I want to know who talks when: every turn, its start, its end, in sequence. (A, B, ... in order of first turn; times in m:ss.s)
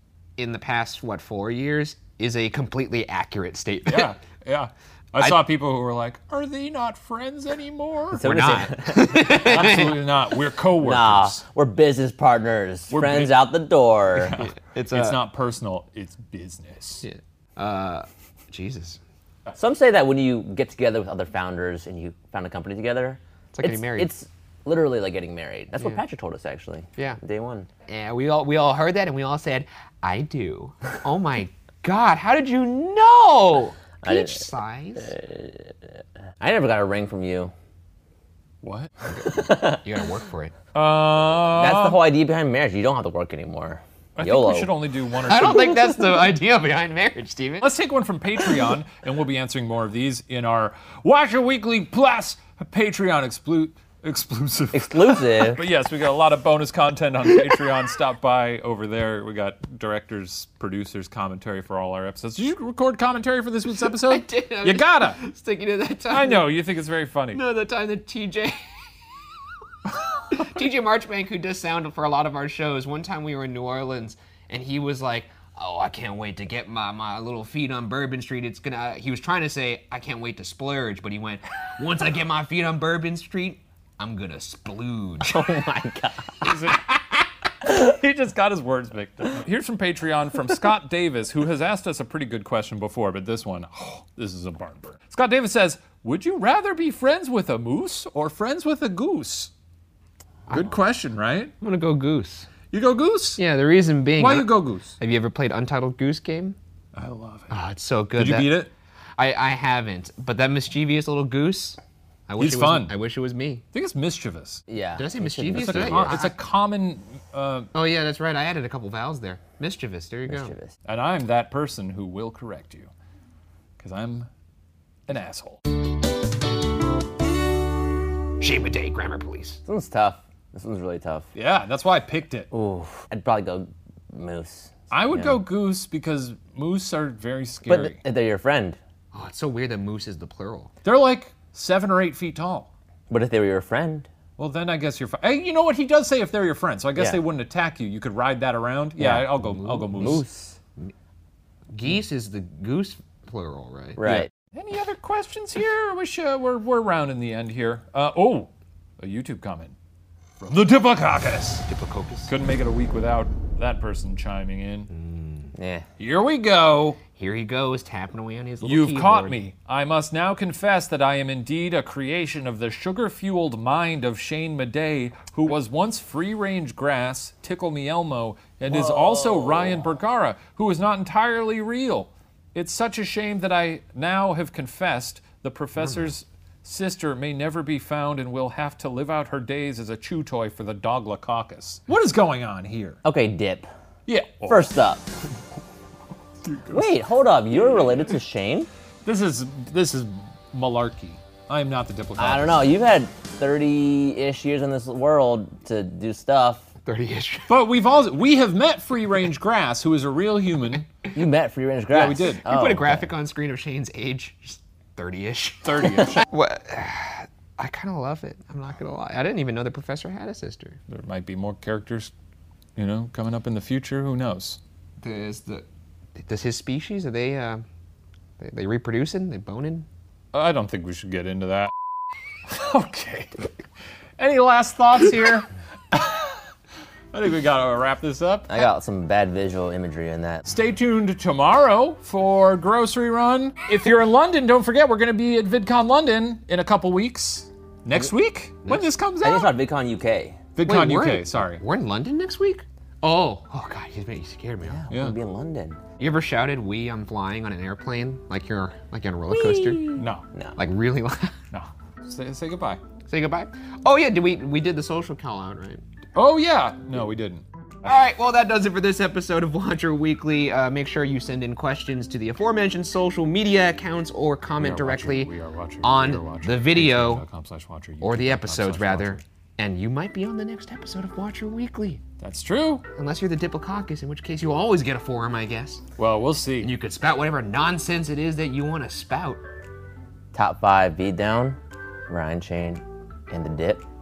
0:00.4-0:04.1 A
0:03.9-0:08.5 B
0:08.1-0:10.3 A
0:08.2-0:09.1 C
0:09.1-0:11.4 B
0:10.8-0:14.4 C
0:12.9-0:13.4 B
0:14.1-0:17.0 B
0:14.4-0:15.2 A
0:17.0-0:19.0 A
0:19.5-0:27.7 C
0:23.5-0:24.1 A
0:27.9-0:35.1 A
0:34.0-0:35.7 C
0:36.4-0:37.5 C
0:38.6-0:38.9 B
0:39.1-0:40.6 A
0:39.3-0:39.8 C
0:40.7-0:42.0 B
0:41.5-0:44.7 C
0:44.2-0:45.9 B
0:45.2-0:47.7 A
0:47.6-1:05.2 B
0:54.7-0:55.6 C
1:03.8-1:06.5 A
1:06.1-1:07.4 B
1:07.3-1:09.5 A
1:10.3-1:25.4 A
1:25.2-1:26.5 C
1:26.4-1:26.9 B
1:27.6-1:39.5 B
1:40.5-1:40.8 A
1:40.5-1:41.5 B
1:41.6-1:42.5 A
1:42.7-1:43.4 B
1:43.4-1:46.6 A
1:44.2-1:45.0 B
1:46.9-1:47.5 B
1:47.5-1:48.6 A
1:48.1-1:48.7 B
1:49.2-1:53.6 A
1:52.4-1:53.0 B
1:53.7-1:54.6 B
1:54.7-1:56.3 C
1:55.0-1:56.3 A
1:55.5-1:57.7 B
1:57.7-2:00.5 A
2:00.3-2:00.7 C
2:00.8-2:02.9 B
2:03.8-2:04.3 B
2:05.1-2:05.6 B
2:08.4-2:09.6 A
2:09.6-2:11.3 C
2:11.3-2:12.5 B
2:12.5-2:15.4 C
2:14.9-2:18.0 B
2:17.7-2:18.8 C
2:19.1-2:20.7 A
2:20.8-2:22.7 B
2:23.1-2:24.1 C
2:24.4-2:30.2 B
2:29.0-2:30.6 C
2:29.5-2:29.9 A
2:31.7-2:34.0 A
2:34.0-2:34.3 C
2:34.0-2:39.7 B
2:40.4-2:41.7 B
2:41.7-2:42.3 A
2:42.3-2:44.9 B
2:44.9-2:45.5 A
2:45.5-2:45.8 C
2:46.0-2:47.0 B
2:47.1-2:49.4 A
2:48.6-3:13.0 B
2:58.7-2:59.8 C
3:13.0-3:13.7 C
3:14.1-3:14.7 B
3:14.5-3:15.0 C
3:16.4-3:17.0 B
3:16.7-3:18.7 C
3:19.0-3:22.6 B
3:22.2-3:26.7 C
3:26.8-3:27.5 A
3:27.5-3:30.9 B
3:31.1-3:33.1 C
3:31.9-3:32.4 B
3:32.4-3:40.8 A
3:35.6-3:36.2 B
3:40.9-3:42.1 B
3:42.8-3:44.6 B
3:45.0-3:47.6 A
3:48.4-3:49.9 A
3:50.3-3:51.7 B
3:52.5-3:53.5 B
3:54.2-3:56.4 B
3:57.1-3:58.7 B
3:58.5-4:00.4 C
4:00.4-4:09.6 B
4:09.2-4:10.4 C
4:10.6-4:11.6 B
4:10.6-4:14.8 A
4:14.7-4:15.8 C
4:14.9-4:15.2 B
4:16.0-4:20.0 A
4:19.5-4:20.6 C
4:19.9-4:20.2 B
4:20.6-4:21.4 A
4:21.5-4:22.8 B
4:23.1-4:25.8 A
4:26.1-4:27.4 B
4:27.8-4:37.2 A
4:34.6-4:39.2 B
4:38.0-4:42.0 A
4:42.2-4:42.8 B
4:42.9-4:45.8 A
4:46.0-4:46.7 B
4:46.6-4:49.4 A
4:50.3-4:53.8 C